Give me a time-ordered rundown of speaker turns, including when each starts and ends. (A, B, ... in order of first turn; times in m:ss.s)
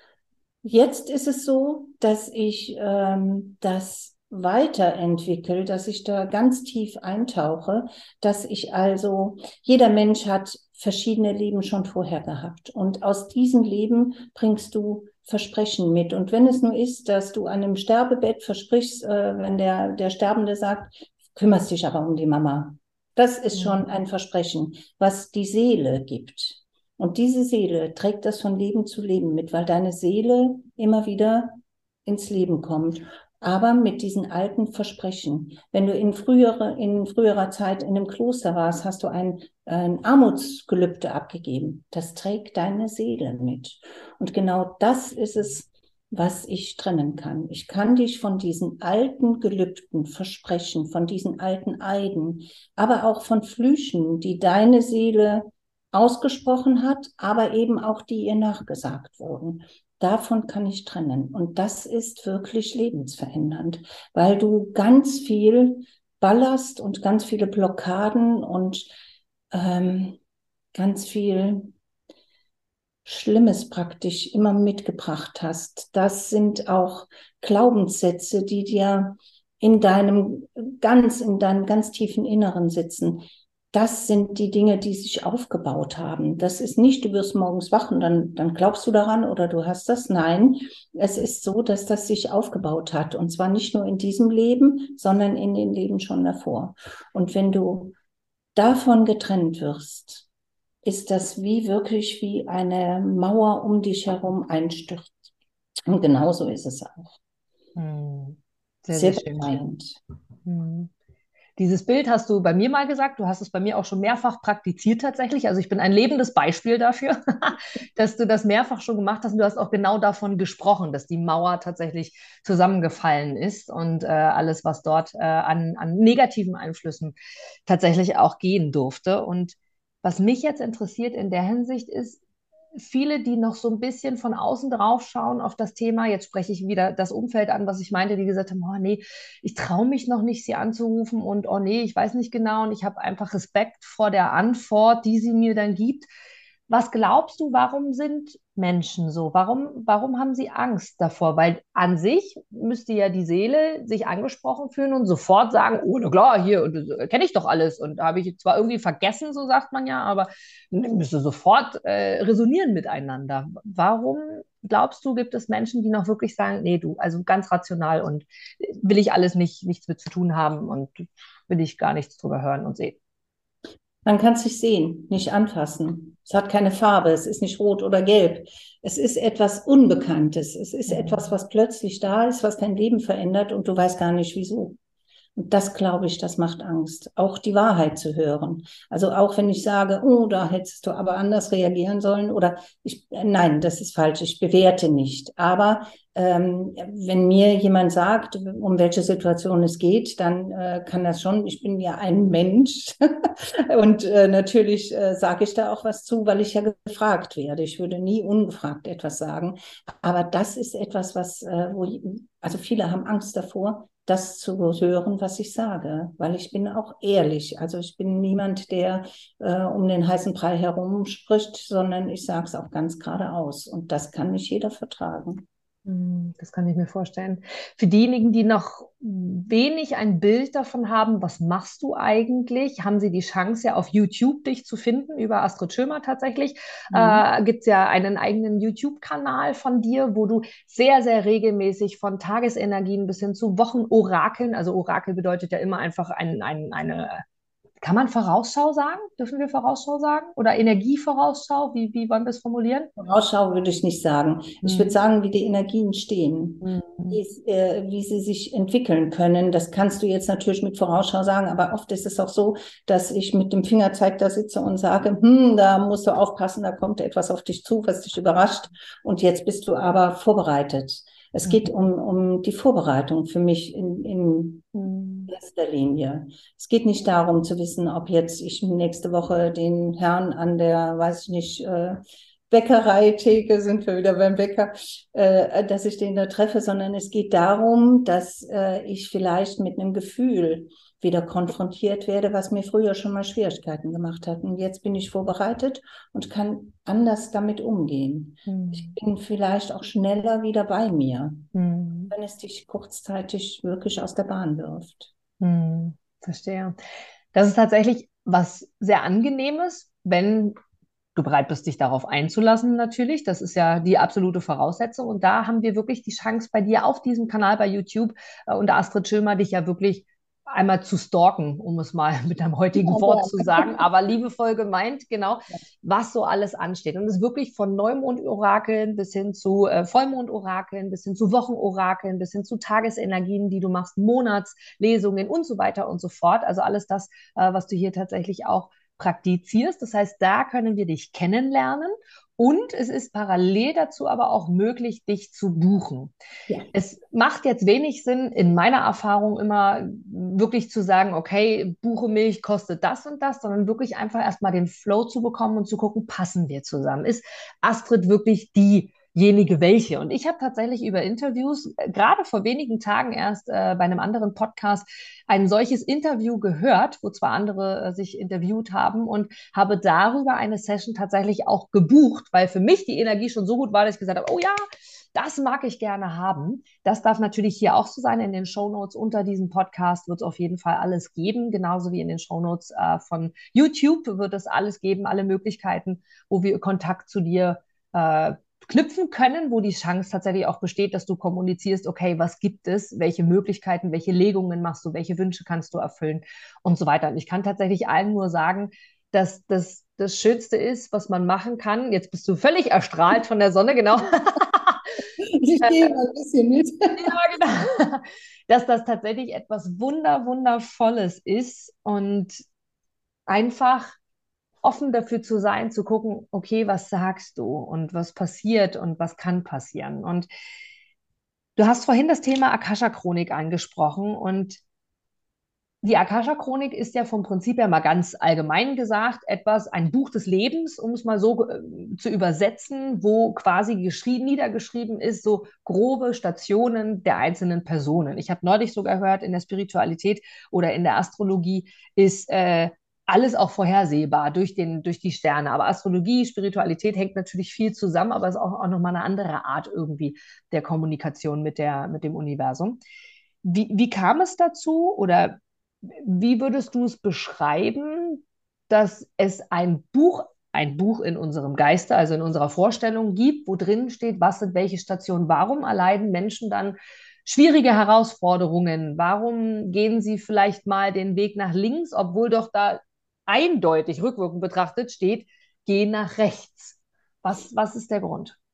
0:00.6-1:08.9 A
0:23.6-0:23.8 B
1:09.5-1:10.2 A
1:10.8-1:11.7 A
1:13.1-1:38.0 A
1:38.6-1:40.3 A
1:40.8-1:45.2 A
1:45.9-1:47.2 A
1:47.8-1:49.6 B
1:48.9-1:50.0 A
1:50.4-1:50.9 B
1:51.6-2:07.2 B
2:07.7-2:12.2 B
2:12.8-2:26.1 B
2:26.7-2:53.0 B
2:54.0-3:04.8 A
3:00.9-3:01.3 B
3:05.4-3:45.4 A
3:45.9-4:07.2 B
3:56.9-3:57.2 A
4:07.8-4:12.9 B
4:13.0-4:34.7 A
4:14.6-4:15.0 B
4:16.6-4:17.2 B
4:34.7-4:35.3 B
4:35.3-4:42.0 A
4:42.5-5:01.5 A
4:58.5-4:59.0 B
5:01.5-5:02.1 B
5:02.1-5:05.1 A
5:05.4-5:06.8 B
5:07.3-5:10.6 B
5:11.2-5:46.1 B
5:22.8-5:23.8 A
5:46.7-6:14.6 B
6:15.1-6:45.1 B
6:45.2-6:47.2 A
6:45.6-6:46.0 B
6:47.0-6:52.4 B
6:53.3-6:54.0 B
6:54.6-7:00.3 B
7:01.6-7:04.6 B
7:05.8-7:32.8 B
7:33.4-7:58.4 B